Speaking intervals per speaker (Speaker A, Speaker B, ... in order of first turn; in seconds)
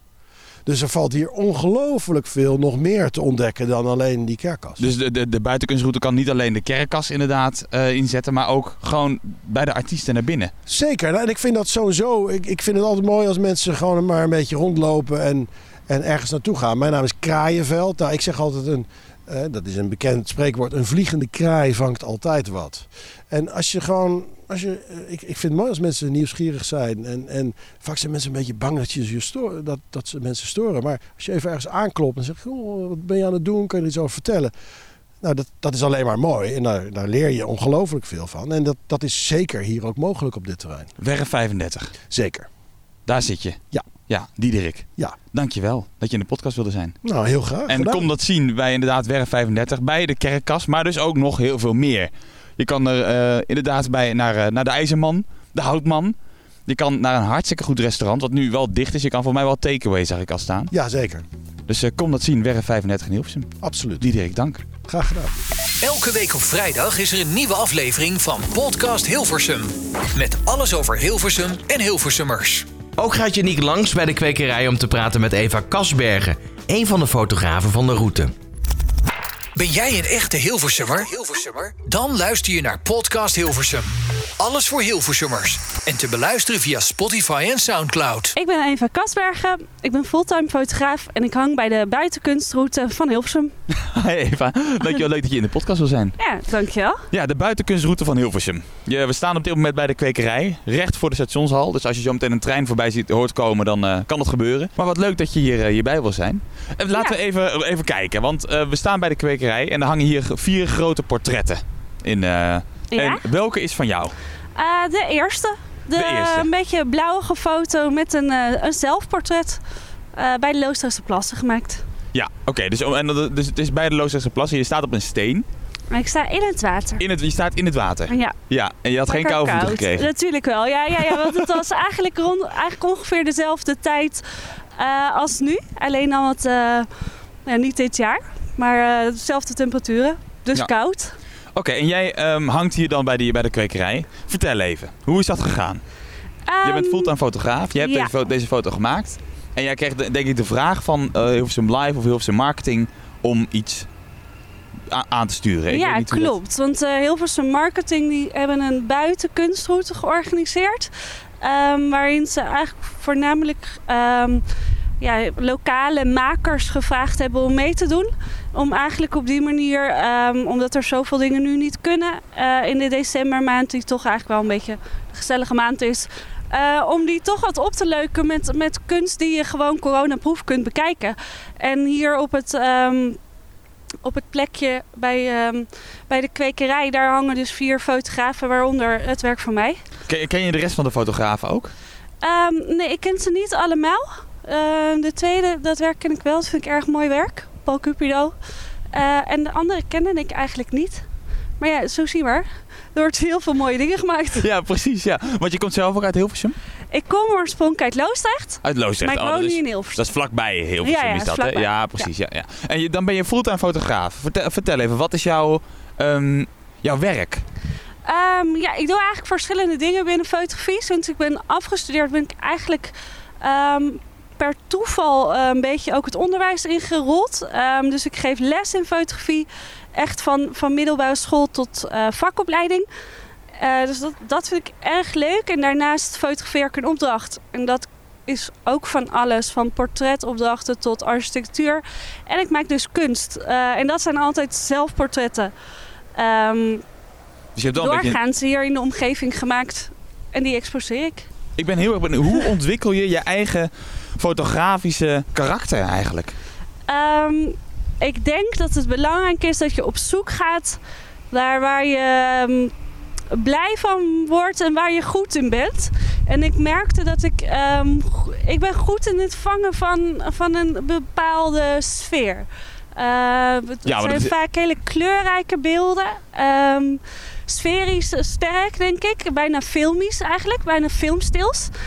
Speaker A: 0.7-4.8, 10.7-34.5, 35.2-40.9, 42.1-42.5, 47.0-48.1, 60.7-61.2, 63.6-64.1, 64.8-65.3
Speaker B: 4.8-10.5, 41.0-41.9, 43.0-47.0, 47.7-56.1, 56.7-60.7, 61.7-64.6, 93.7-96.2, 97.1-114.1, 116.0-116.5, 122.1-125.5, 127.0-130.1, 131.0-131.5, 141.5-145.8, 146.6-153.9, 154.9-156.3, 190.1-191.7, 204.4-206.6, 208.6-217.4, 247.6-248.2, 251.6-256.4, 273.8-274.3
Speaker C: 65.8-72.7, 79.5-88.3
Speaker D: 73.0-78.3
Speaker E: 88.3-93.5, 96.2-97.0, 112.9-113.2, 114.5-119.6, 120.1-121.8, 125.9-127.0, 128.1-128.3, 129.1-134.2, 134.8-136.9, 137.4-141.1, 146.5-147.1, 147.8-148.1, 155.7-164.4, 165.0-183.2, 184.0-189.8, 192.2-198.3, 198.9-201.0, 201.6-204.4, 206.9-210.1, 210.8-212.1, 218.0-232.9, 233.6-245.5, 246.1-246.8, 247.7-251.3, 256.9-260.8, 261.3-262.7, 263.3-281.7